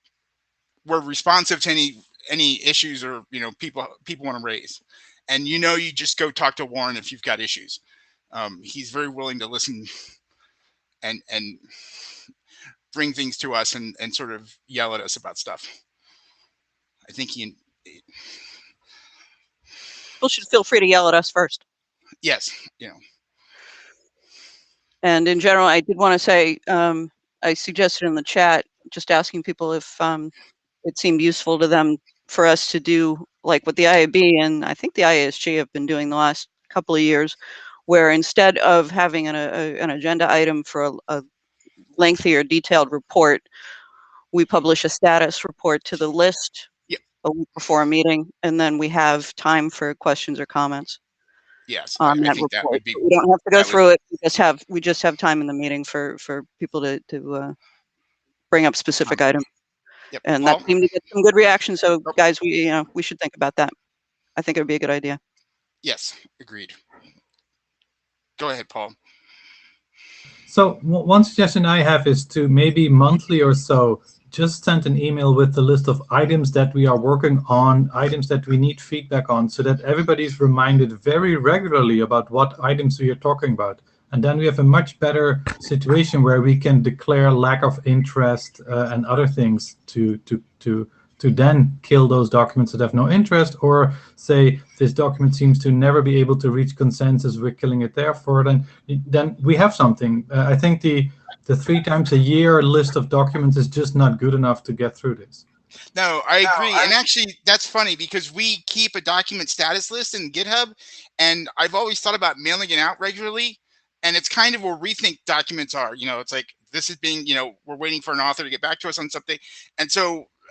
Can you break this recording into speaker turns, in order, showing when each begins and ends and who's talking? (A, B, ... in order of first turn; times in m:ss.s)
0:00.8-0:07.8 A
0:08.3-0:10.1 A
0:11.0-0:12.1 A
0:12.9-0:15.7 A
0:17.1-0:18.0 A
0:20.2-0:21.6 B
0:22.2-0:23.0 A
0:25.0-0:30.3 B
0:30.8-0:37.4 B
0:37.9-0:41.2 B
0:42.0-0:43.4 B
0:44.3-0:46.7 B
0:47.2-0:51.0 B
0:51.7-0:53.0 A
0:52.0-0:57.6 B
0:53.5-0:53.8 A
0:58.5-0:59.4 B
1:00.1-1:00.6 A
1:00.2-1:03.7 B
1:04.4-1:05.2 B
1:05.8-1:06.8 A
1:08.4-1:08.9 A
1:10.5-1:45.4 C
1:46.0-2:00.3 A